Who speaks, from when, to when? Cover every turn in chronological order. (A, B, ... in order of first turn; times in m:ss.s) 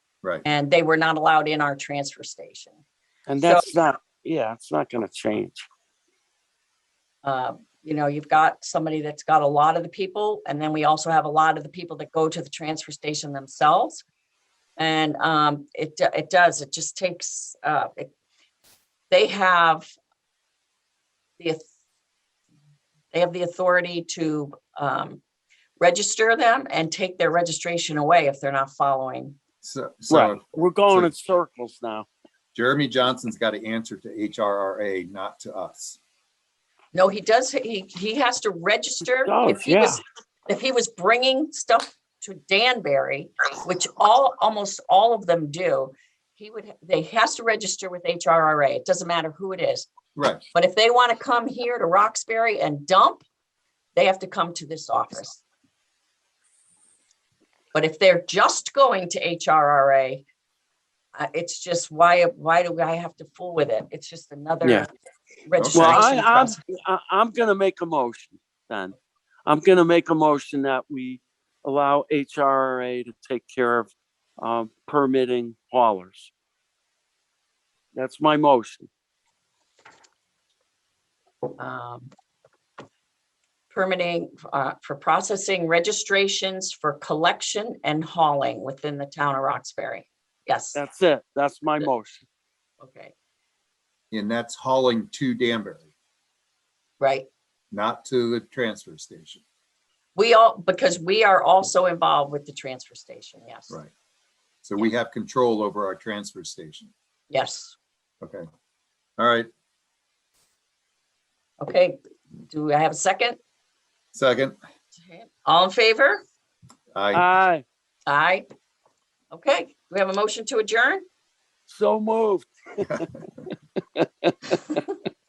0:00.4-0:02.8 A
0:03.3-0:05.7 B
0:03.4-0:03.6 A
0:07.2-0:14.0 A
0:14.8-0:18.1 A
0:19.1-0:19.9 A
0:21.4-0:21.7 A
0:23.1-0:25.2 A
0:25.8-0:29.4 A
0:29.6-0:31.1 C
0:30.1-0:32.1 B
0:32.6-0:36.0 C
0:36.9-0:49.9 A
0:39.2-0:40.0 B
0:50.2-0:50.4 C
0:50.5-0:53.2 A
0:54.0-0:55.4 A
0:57.7-1:00.2 A
1:01.2-1:04.9 A
1:05.5-1:06.6 A
1:05.6-1:06.1 C
1:05.7-1:16.3 B
1:18.0-1:18.9 B
1:21.6-1:22.1 A
1:23.7-1:30.8 A
1:30.8-1:32.2 B
1:32.8-1:33.1 A
1:34.1-1:35.9 C
1:37.0-1:37.3 A
1:37.7-1:39.4 C
1:40.2-1:43.8 A
1:44.6-1:46.9 C
1:47.3-1:47.8 A
1:49.2-1:49.5 C
1:51.6-1:52.0 A
1:52.5-1:53.4 A
1:54.1-1:54.6 C
1:54.9-1:56.2 A
1:57.0-1:57.2 C
1:57.1-1:57.6 B
1:58.1-1:58.4 A
1:59.3-2:01.0 A
2:01.7-2:03.1 B
2:04.0-2:04.8 B